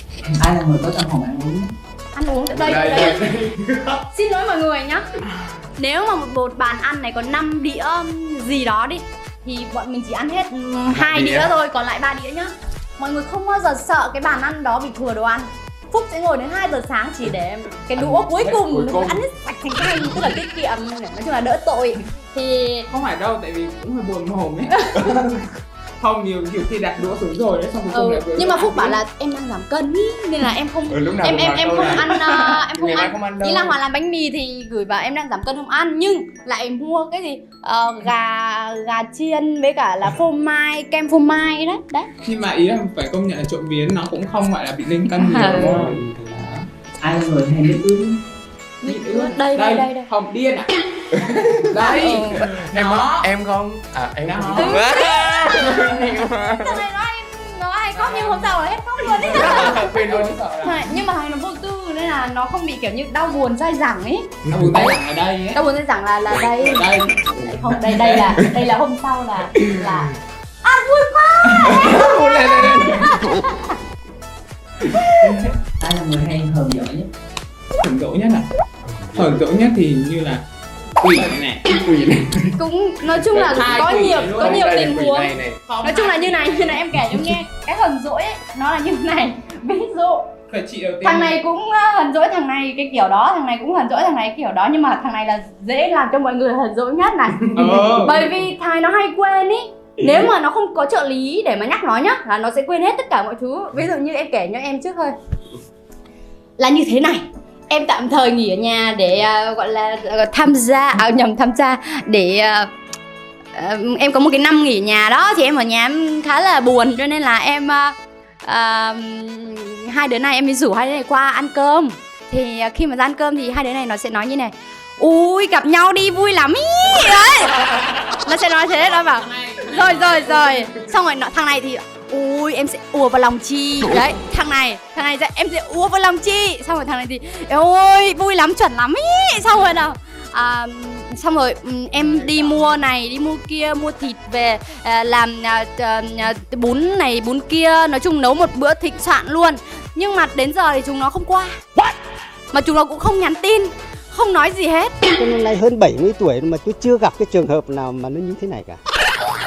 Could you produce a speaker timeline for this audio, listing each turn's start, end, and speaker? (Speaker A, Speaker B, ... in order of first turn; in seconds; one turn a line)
Speaker A: 0.4-1.7
Speaker B: 2.1-3.2
Speaker C: 2.5-4.0
Speaker B: 4.1-5.1
Speaker B: 5.8-22.9
Speaker C: 10.9-11.5
Speaker C: 17.9-19.2
Speaker C: 19.9-20.2
Speaker D: 22.9-25.0
Speaker B: 24.7-25.1
Speaker C: 25.1-25.4
Speaker D: 26.0-29.0
Speaker B: 27.9-42.1
Speaker C: 30.9-33.8
Speaker D: 42.2-46.7
Speaker B: 45.1-45.9
Speaker C: 45.4-46.5
Speaker A: 47.0-48.2
Speaker B: 48.8-50.1
Speaker D: 48.8-50.7
Speaker C: 51.2-51.6
Speaker D: 51.5-53.3
Speaker B: 51.8-52.5
Speaker C: 52.4-56.8
Speaker D: 54.2-56.1
Speaker B: 54.6-56.0
Speaker B: 56.6-60.0
Speaker D: 57.9-58.6
Speaker D: 59.2-61.0
Speaker C: 59.2-60.3
Speaker B: 60.6-64.3
Speaker D: 64.5-65.6
Speaker C: 64.5-64.9
Speaker B: 65.5-73.7
Speaker D: 66.4-67.2
Speaker D: 67.8-68.5
Speaker C: 69.7-70.0
Speaker D: 71.5-71.9
Speaker C: 71.6-73.2
Speaker A: 75.8-77.1
Speaker D: 77.8-78.5
Speaker C: 78.9-79.4
Speaker D: 79.1-80.4
Speaker D: 81.0-81.7
Speaker C: 81.7-82.6
Speaker B: 82.6-90.3
Speaker C: 83.2-85.6
Speaker D: 83.5-84.7
Speaker D: 85.6-87.0
Speaker D: 90.5-91.4
Speaker B: 91.0-105.1
Speaker D: 97.5-98.2
Speaker C: 100.0-100.3
Speaker B: 106.6-112.7
Speaker B: 113.5-151.6
Speaker D: 127.7-130.8
Speaker D: 142.0-142.6
Speaker B: 152.5-155.0
Speaker E: 155.2-158.8